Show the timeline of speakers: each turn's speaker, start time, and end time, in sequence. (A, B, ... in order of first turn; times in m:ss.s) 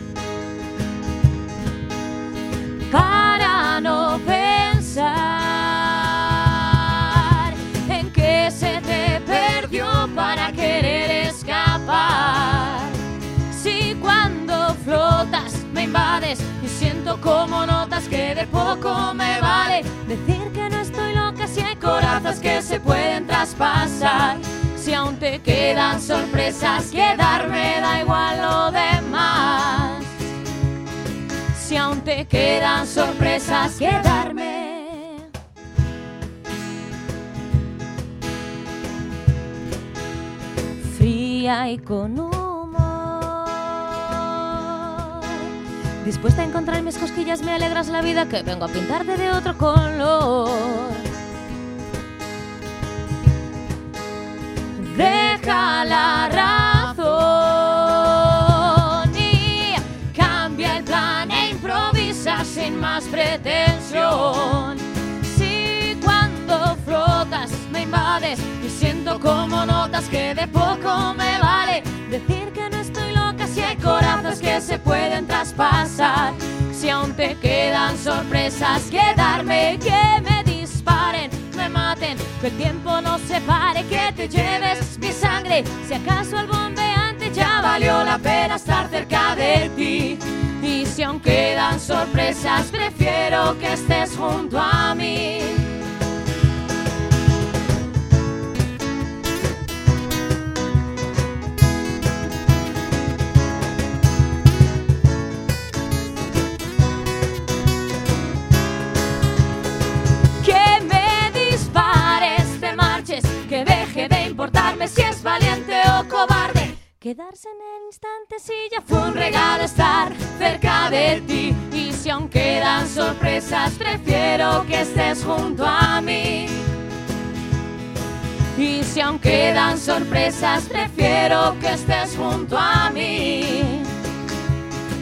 0:02.9-0:13.0 A
0:13.5-0:30.2 A
0:31.5-0:35.3 A
0:40.8-0:45.5 A
0:46.0-0:51.0 A
0:54.8-1:35.7 A
1:50.4-2:06.7 A
2:08.6-2:13.9 A